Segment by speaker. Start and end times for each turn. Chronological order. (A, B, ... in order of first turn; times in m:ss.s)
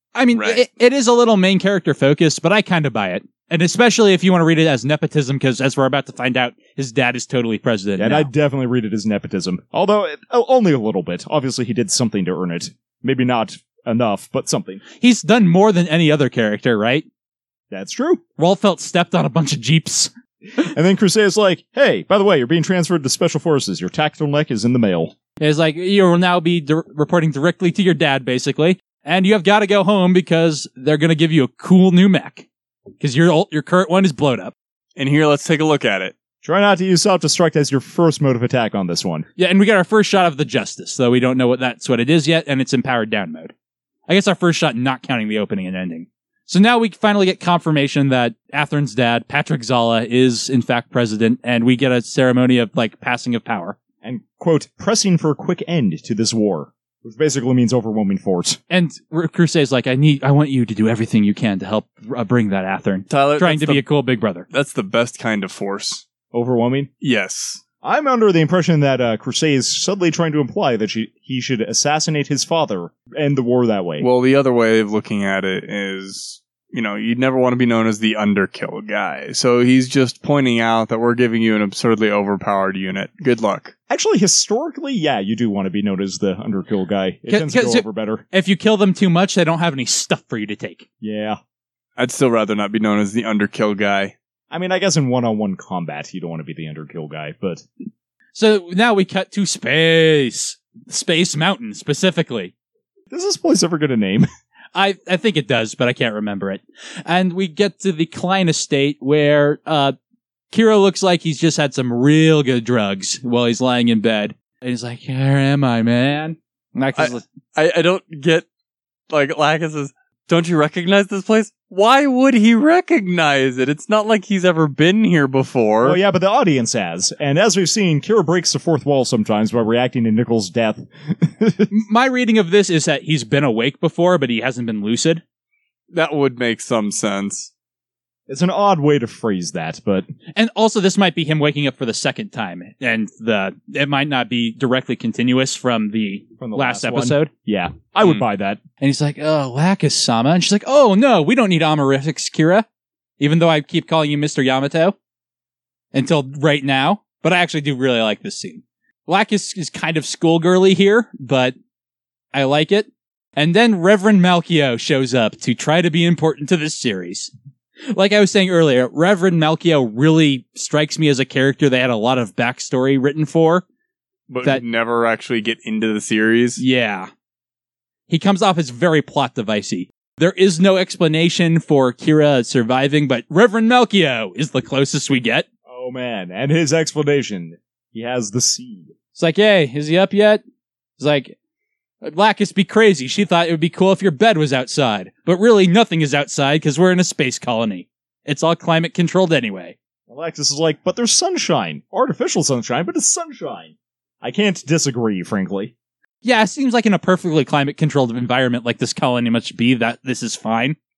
0:00.2-0:08.3 A
0:00.4-0:00.6 B
0:08.0-0:14.8 C
0:15.0-0:17.1 A
0:17.7-0:18.2 C
0:18.4-0:20.1 A
0:20.6-0:25.1 C
0:25.4-0:32.5 A
0:33.0-0:34.5 A
0:35.0-0:36.1 B
0:36.4-0:39.3 C
0:39.4-0:43.5 A
0:44.1-0:53.8 A
0:54.0-0:58.6 C
0:58.7-1:04.5 A
1:03.1-1:03.8 B
1:04.5-1:06.1 B
1:06.3-1:06.9 C
1:07.0-1:07.6 B
1:07.8-1:14.1 C
1:14.0-1:23.7 B
1:23.9-1:28.2 C
1:27.3-1:30.8 A
1:31.0-1:31.4 C
1:32.0-1:34.1 B
1:34.5-1:37.6 C
1:38.4-1:42.5 A
1:43.1-1:44.3 C
1:44.8-1:50.0 A
1:50.5-1:57.2 A
1:57.0-1:58.5 B
1:59.1-2:06.0 B
2:05.8-2:11.7 C
2:11.7-2:15.2 A
2:15.9-2:17.5 B
2:18.3-2:20.1 C
2:20.4-2:27.3 A
2:26.4-2:28.6 C
2:28.8-2:32.6 A
2:33.2-2:35.0 A
2:35.9-2:41.6 A
2:42.3-2:47.3 A
2:47.9-2:53.6 A
2:54.3-2:56.6 B
2:56.6-2:57.1 A
2:58.1-3:05.5 A
3:05.7-3:08.9 C
3:09.2-3:10.4 A
3:11.0-3:11.4 A
3:12.0-3:19.8 A
3:20.1-3:25.7 C
3:26.2-3:30.8 A